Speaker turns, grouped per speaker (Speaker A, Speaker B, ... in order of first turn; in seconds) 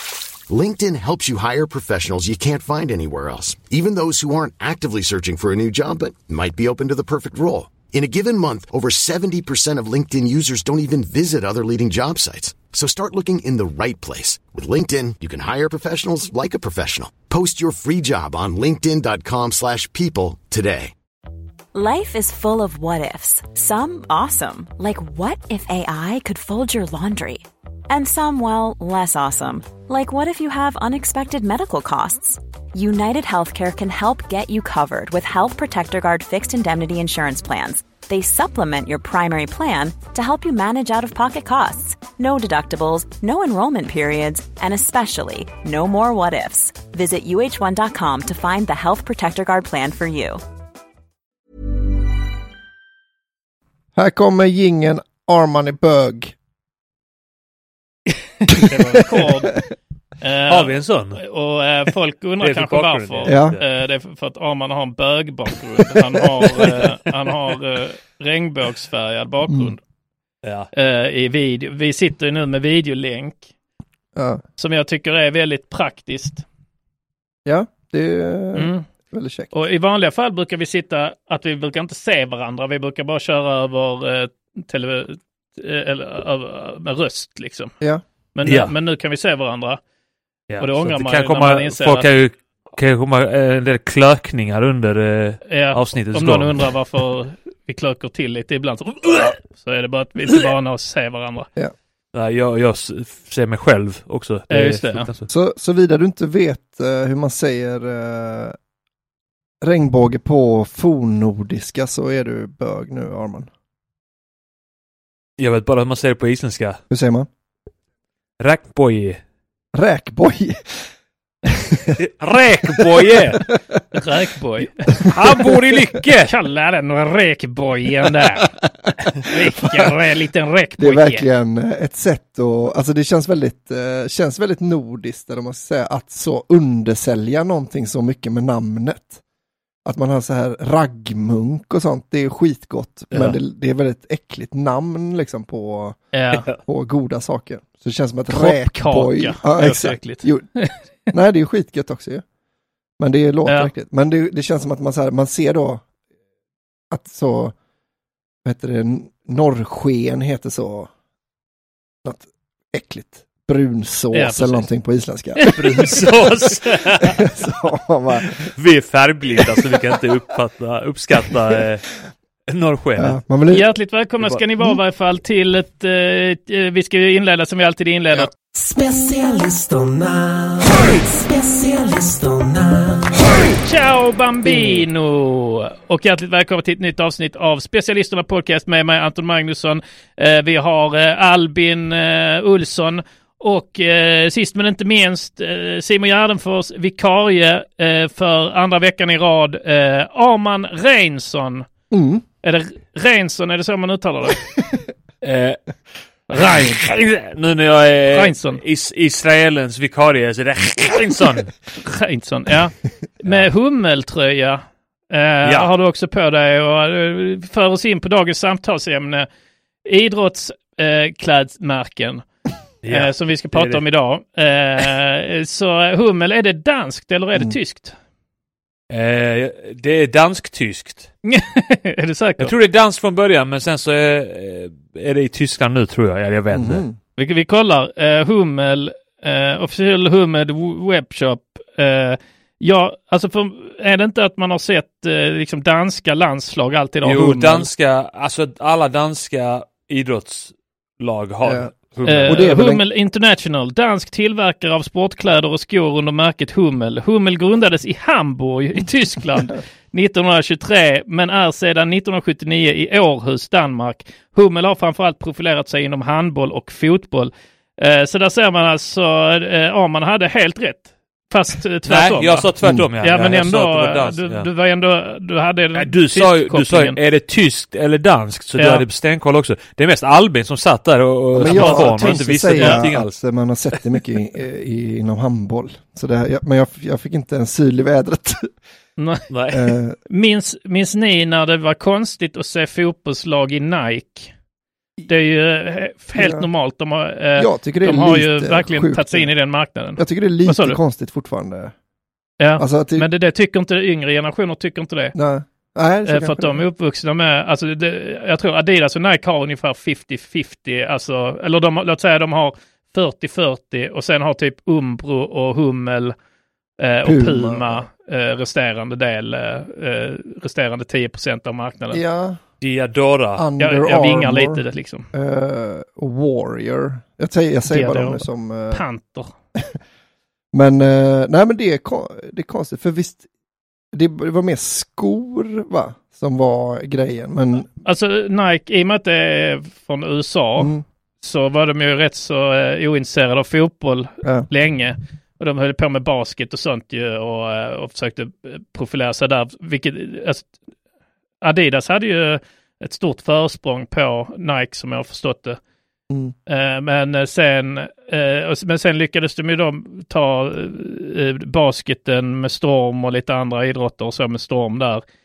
Speaker A: 0.5-20.9
Speaker B: 21.7-50.4
Speaker C: 54.0-56.3, 63.3-63.6, 69.5-69.7, 74.2-74.4, 77.5-79.5, 105.3-108.6, 109.6-113.5, 116.9-117.3, 119.7-120.9, 121.5-121.9, 122.8-123.6, 130.8-139.2, 139.8-146.0, 146.6-150.5, 151.1-152.2, 153.0-155.8, 156.9-157.6, 158.4-160.9, 162.0-166.0, 167.2-168.5, 169.5-169.8, 173.0-173.7, 201.9-202.2, 236.5-237.0, 251.4-252.8, 272.6-272.9, 281.3-288.6, 289.5-290.0, 296.2-296.5, 297.4-299.3, 300.0-301.7, 302.6-303.1, 305.1-306.6, 317.0-317.9, 321.9-322.4, 323.4-328.8, 330.5-333.2, 333.9-337.7, 340.6-340.8, 344.2-344.5, 356.1-356.4
Speaker D: 58.4-59.6, 60.2-69.8, 70.7-73.5, 74.6-76.4, 78.5-78.8, 79.5-87.7, 88.3-89.8, 90.6-92.1, 95.5-101.5, 104.5-105.1, 124.0-124.9, 126.3-128.5, 129.2-131.3, 146.1-146.5, 148.3-150.8, 153.5-153.7, 164.1-164.7, 173.5-178.3, 183.6-201.7, 202.4-204.4, 206.3-206.8, 208.1-208.6, 211.8-219.3, 219.8-222.3, 222.9-228.0, 231.2-232.5, 237.2-247.7, 252.1-272.5, 273.0-277.0, 278.6-278.8, 281.4-282.9, 289.0-289.3, 290.1-294.3, 295.1-300.8, 302.4-305.1, 306.1-316.2, 316.8-322.0, 323.6-325.1, 327.7-329.3, 337.8-350.5, 351.4-355.6, 356.5-365.0
Speaker E: 60.5-61.2, 62.4-63.6, 70.4-70.7, 88.5-88.7, 90.5-96.7, 102.1-105.3, 115.4-116.8, 118.4-119.2, 122.0-123.5, 125.0-126.3, 143.1-143.4, 165.6-167.2, 168.3-171.9, 172.5-173.2, 178.6-183.1, 205.2-205.6, 206.4-211.5, 215.4-215.7, 222.8-223.8, 228.9-231.1, 232.4-236.8, 247.0-252.5, 271.9-274.5, 275.8-283.2, 289.3-289.6, 322.6-323.4